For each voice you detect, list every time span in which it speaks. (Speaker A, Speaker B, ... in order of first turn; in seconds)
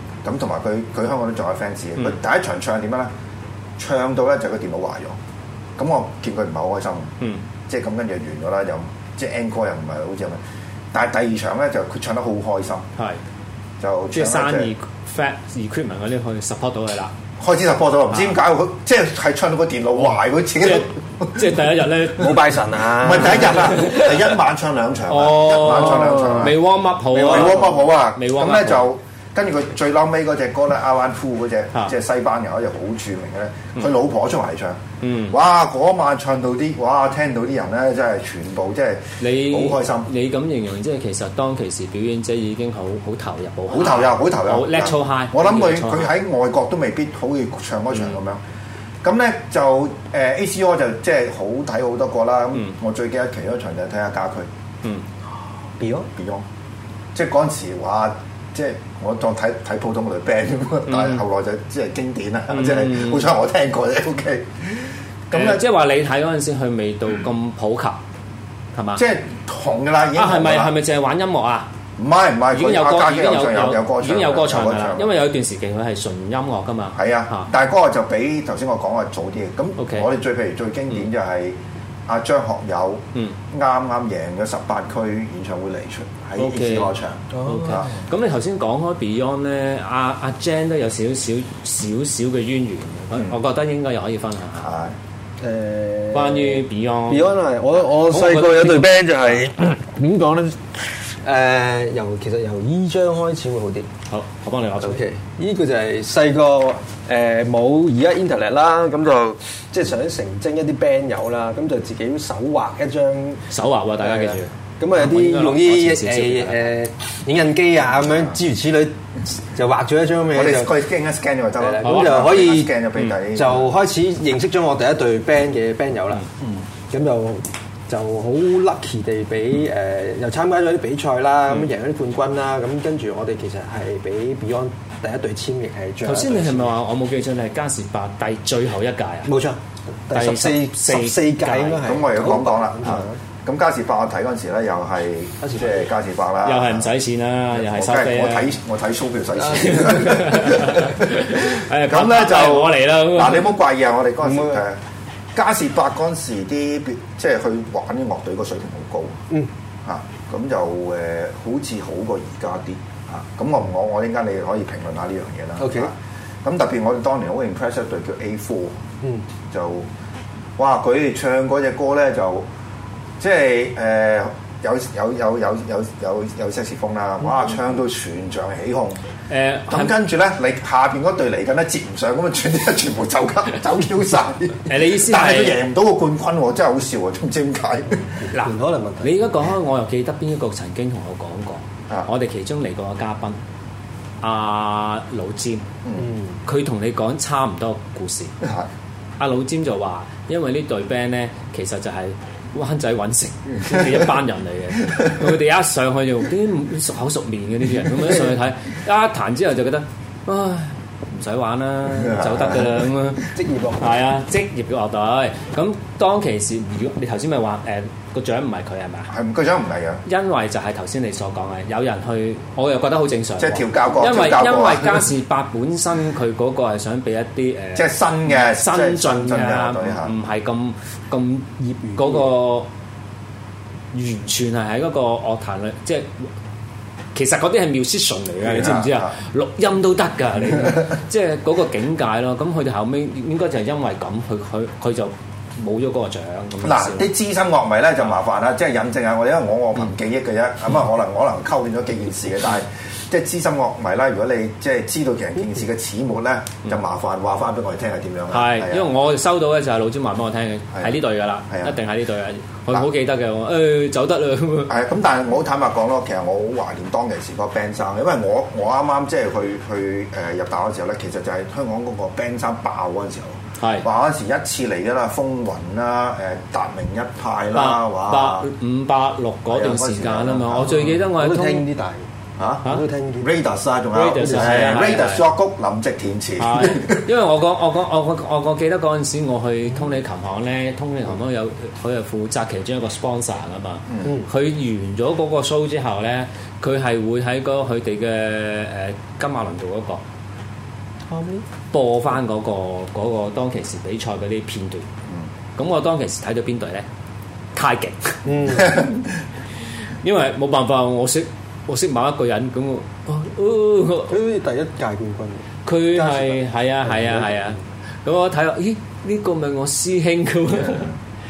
Speaker A: 0.2-3.1, 3.8-5.2, 5.8-7.1, 7.7-10.4, 10.9-12.9, 13.8-14.7, 17.4-21.6, 23.0-26.6, 27.1-40.1, 43.7-48.4, 49.0-54.5, 56.1-56.5, 57.1-65.6, 69.0-70.7, 72.0-75.1, 76.9-87.9, 94.6-95.0, 120.3-123.7, 141.8-146.9, 147.5-154.8, 155.3-159.2, 159.8-168.8, 169.5-169.9, 170.6-172.5, 173.2-179.0, 179.7-188.1, 198.4-198.7, 211.9-212.8, 219.1-220.0, 223.4-225.1, 227.7-230.1, 238.4-239.1, 246.6-258.9, 261.5-261.8, 264.7-278.5, 279.5-280.9, 282.4-282.7, 283.2-287.1
Speaker B: 14.1-17.1, 18.1-18.4, 20.6-22.5, 23.2-24.1, 25.1-28.9, 35.0-35.4, 39.2-46.1, 60.9-61.2, 62.5-63.3, 65.3-68.0, 68.7-69.0, 70.2-71.7, 72.5-77.5, 79.8-80.1, 86.4-94.7, 96.1-99.4, 104.1-105.0, 113.5-116.7, 121.8-122.2, 136.0-139.3, 140.1-141.8, 146.4-148.6, 149.6-153.5, 179.3-180.0, 184.7-185.6, 188.3-193.4, 194.2-195.7, 196.4-198.3, 199.2-219.1, 220.0-232.7, 233.9-236.3, 237.1-247.1, 258.3-264.8, 273.6-273.9, 277.5-281.6, 283.9-285.3, 286.4-300.0, 301.7-304.9, 305.6-306.9, 307.5-308.8, 310.0-314.1, 315.6-320.9
Speaker C: 22.2-23.7, 25.8-26.5, 27.1-27.9, 55.8-56.1, 87.3-87.9, 95.4-100.6, 101.1-103.9, 104.8-113.4, 114.0-120.8, 121.6-122.8, 123.3-126.2, 126.9-136.7, 139.3-143.2, 145.4-145.8, 149.6-149.8, 154.2-154.6, 165.6-165.9, 188.3-189.2, 196.0-196.4, 213.3-214.0, 231.6-232.2, 281.0-282.0, 282.6-283.3, 284.2-284.9, 301.1-301.4, 308.2-308.8, 314.1-317.5